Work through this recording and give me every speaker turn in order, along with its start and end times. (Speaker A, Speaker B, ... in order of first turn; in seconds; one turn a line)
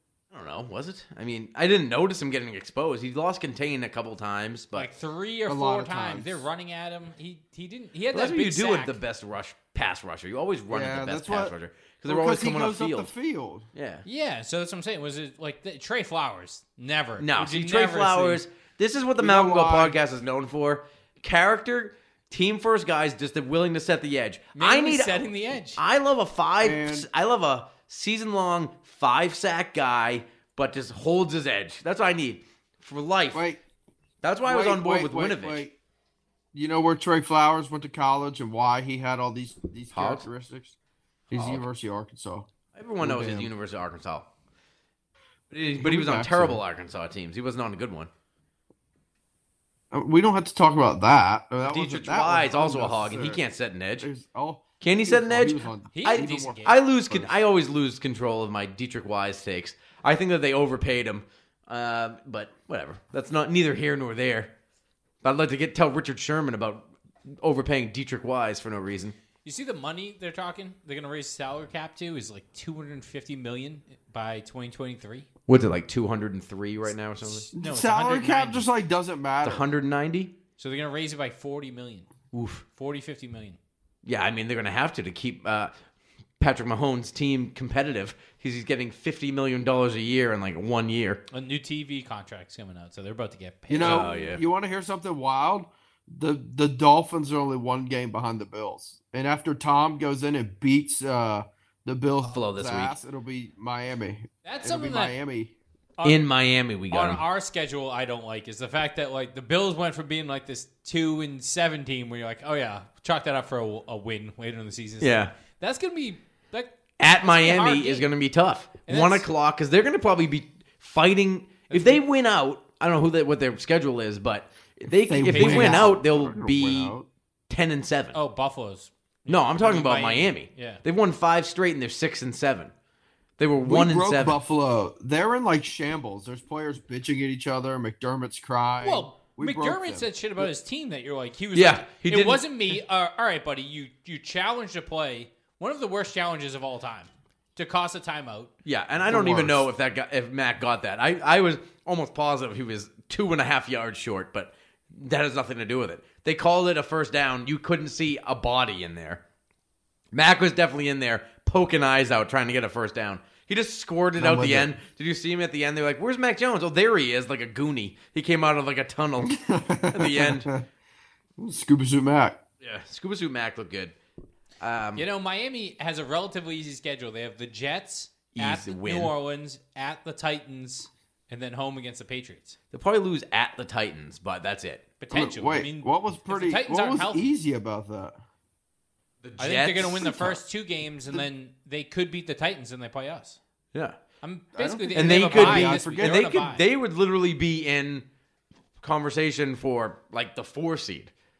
Speaker A: 0.3-4.9
Speaker B: 4.7-9.0
Speaker C: 5.5-6.4
Speaker A: 8.1-13.1
Speaker C: 10.7-11.5
Speaker C: 12.1-13.7
Speaker A: 13.7-14.0
Speaker B: 14.1-18.4
Speaker A: 17.2-33.5
Speaker C: 19.2-19.9
Speaker B: 24.5-25.8
Speaker C: 26.6-27.1
Speaker C: 33.3-33.6
Speaker A: 34.2-35.7
Speaker C: 34.4-35.7
Speaker C: 36.5-40.8
Speaker A: 39.9-40.3
Speaker C: 41.3-42.5
Speaker A: 41.3-41.7
Speaker A: 42.7-44.3
Speaker C: 43.0-43.5
Speaker A: 45.5-48.1
Speaker C: 45.8-46.6
Speaker C: 49.9-53.4
Speaker A: 51.6-54.1
Speaker C: 54.0-57.3
Speaker A: 54.8-64.5
Speaker B: 55.9-56.8
Speaker A: 65.2-69.2
Speaker B: 69.4-75.3
Speaker A: 75.5-77.5
Speaker B: 77.5-78.7
Speaker C: 77.5-79.6
Speaker A: 79.4-80.3
Speaker B: 80.6-82.1
Speaker A: 82.3-82.6
Speaker B: 82.8-83.6
Speaker A: 84.0-85.7
Speaker A: 86.4-91.2
Speaker B: 91.3-94.4
Speaker C: 93.7-105.5
Speaker A: 93.8-94.4
Speaker A: 102.3-102.9
Speaker B: 104.4-105.2
Speaker B: 106.0-106.2
Speaker A: 106.0-107.2
Speaker B: 106.9-118.1
Speaker A: 115.0-115.3
Speaker A: 117.0-127.0
Speaker B: 118.8-119.2
Speaker B: 121.7-122.0
Speaker C: 125.0-127.1
Speaker B: 125.2-125.9
Speaker A: 127.5-128.2
Speaker B: 128.1-130.8
Speaker A: 129.3-132.7
Speaker A: 133.4-134.4
Speaker C: 133.6-140.1
Speaker B: 138.8-148.5
Speaker A: 141.5-142.5
Speaker A: 148.6-159.2
Speaker C: 149.1-149.6
Speaker A: 160.1-170.5
Speaker C: 164.2-164.7
Speaker C: 169.5-170.6
Speaker C: 171.4-172.4
Speaker A: 172.6-173.9
Speaker A: 174.6-175.0
Speaker B: 174.9-182.6
Speaker A: 178.3-179.1
Speaker A: 182.7-184.9
Speaker B: 185.0-187.3
Speaker C: 185.1-188.2
Speaker A: 189.2-190.4
Speaker B: 189.4-193.4
Speaker B: 194.2-196.6
Speaker A: 194.6-198.1
Speaker C: 194.6-196.4
Speaker A: 198.8-201.1